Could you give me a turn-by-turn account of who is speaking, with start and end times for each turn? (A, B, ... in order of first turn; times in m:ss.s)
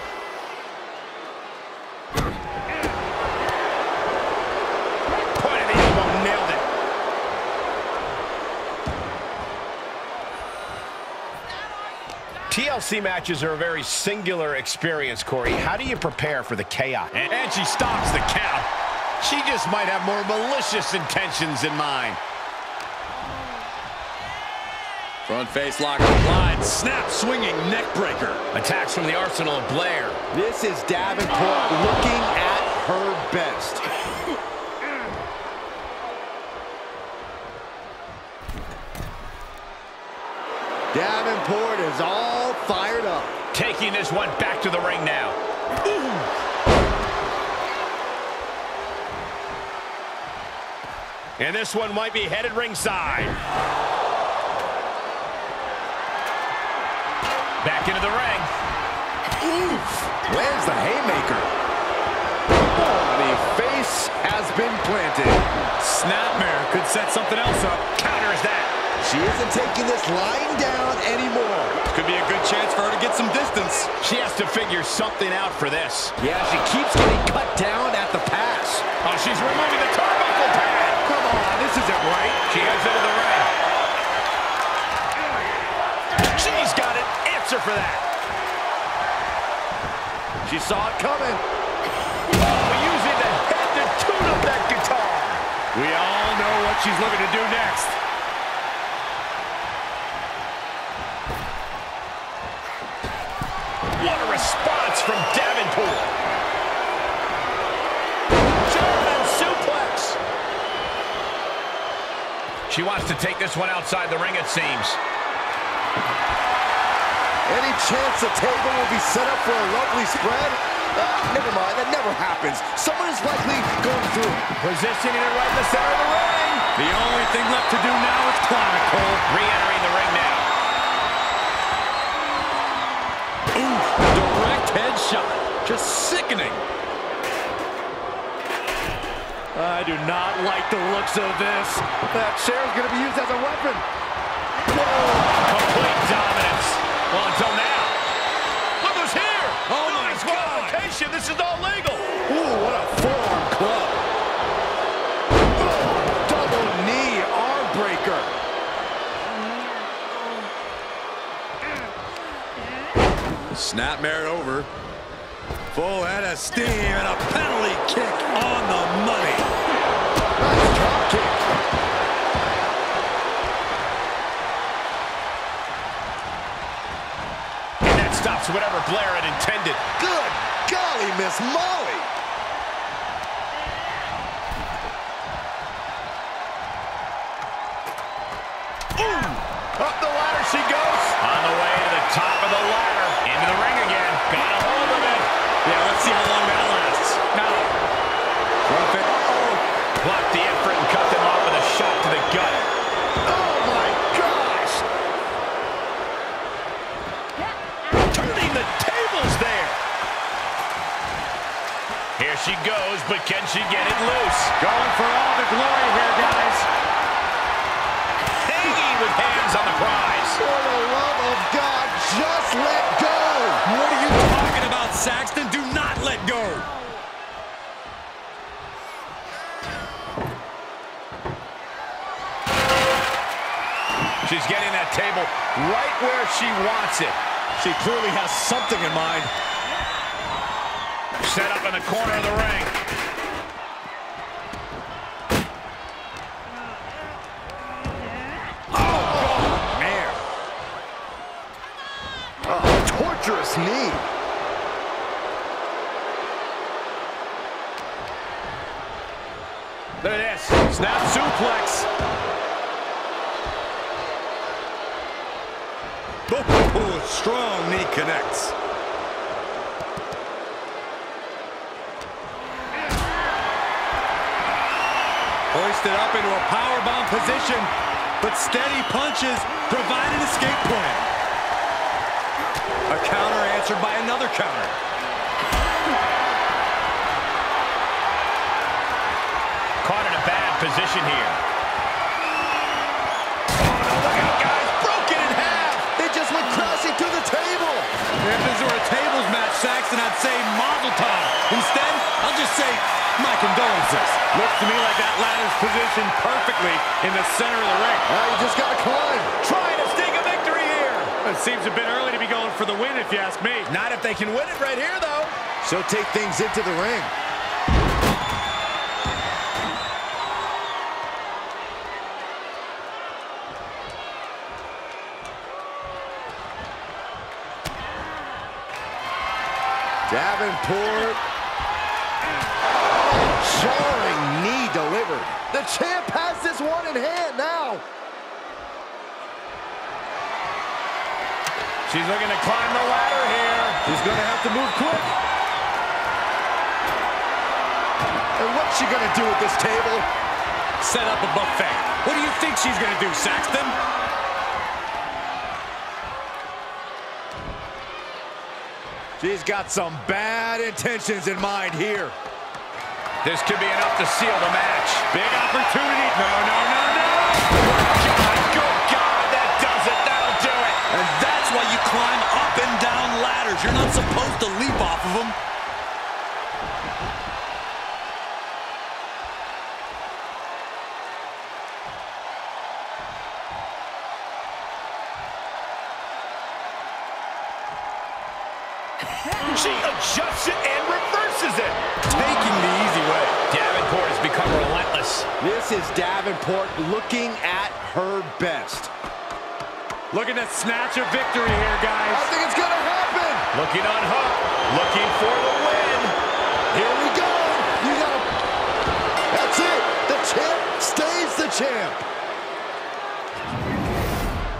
0:05.3-0:06.6 A
0:12.5-0:18.7 A
0:19.2-0:22.2 A
0:25.3-0:28.4 B
0:28.5-0:30.2 A
0:30.3-0:33.8 C
0:40.9-0:43.3 C
0:43.5-0:45.4 A
0:51.4-0:53.4 A
0:57.6-0:58.5 A
0:59.6-1:01.5 C
1:02.7-1:05.4 C
1:05.8-1:07.9 B
1:07.9-1:08.7 A
1:09.0-1:11.8 C
1:11.8-1:13.9 B
1:13.9-1:16.2 A
1:16.2-1:18.9 C
1:19.0-1:21.0 A
1:21.0-1:22.4 C
1:22.5-1:23.5 A
1:26.2-1:28.0 A
1:30.4-1:31.4 C
1:32.3-1:35.4 A
1:35.7-1:38.0 B
1:44.0-1:46.1 A
1:48.6-1:50.2 A
1:52.7-1:55.0 A
1:57.5-2:04.4 C
2:04.6-2:06.6 A
2:06.8-2:09.2 B
2:09.3-2:10.5 A
2:13.5-2:16.6 B
2:19.5-2:21.8 B
2:21.8-2:23.8 C
2:24.7-2:28.0 A
2:28.8-2:32.2 A
2:29.7-2:30.8 B
2:32.2-2:34.0 C
2:35.6-2:38.3 C
2:43.5-2:44.7 B
2:45.7-2:49.5 B
2:50.4-2:51.4 C
2:57.8-2:59.8 A
3:00.0-3:02.1 C
3:09.0-3:11.1 C
3:11.2-3:15.3 A
3:15.6-3:17.7 B
3:18.7-3:19.0 B
3:19.1-3:19.6 C
3:20.0-3:22.6 A
3:23.2-3:24.8 C
3:28.0-3:29.8 A
3:32.2-3:34.5 A
3:34.6-3:36.7 B
3:38.4-3:40.4 A
3:40.4-3:43.6 C
3:43.6-3:46.7 B
3:54.2-3:57.2 A
3:57.6-3:59.3 C
4:01.2-4:02.7 A
4:08.7-4:09.6 C
4:08.8-4:10.2 B
4:12.4-4:14.1 C
4:20.0-4:21.8 A
4:26.3-4:28.5 B
4:35.5-4:41.1 B
4:42.9-4:44.8 B
4:49.8-4:51.4 A
4:53.6-4:55.7 A
4:55.7-4:57.9 C
4:58.2-5:08.1 B
5:08.0-5:09.3 C
5:09.4-5:11.1 A
5:11.2-5:13.7 B
5:13.6-5:15.4 A
5:15.6-5:17.1 C
5:30.1-5:31.2 C
5:32.9-5:37.8 C
5:41.9-5:43.8 A
5:43.8-5:45.1 C
5:48.4-5:50.1 C
5:50.8-5:53.8 B
5:59.2-6:02.2 C
6:03.2-6:05.0 A
6:05.1-6:07.5 B
6:07.5-6:10.8 A
6:10.9-6:15.4 B
6:29.4-6:31.8 A
6:32.0-6:33.4 B
6:33.5-6:35.3 A
6:35.4-6:38.9 C
6:40.1-6:42.3 B
6:42.1-6:43.4 C
6:43.5-6:46.2 A
6:46.7-6:48.3 C
6:49.3-6:52.0 C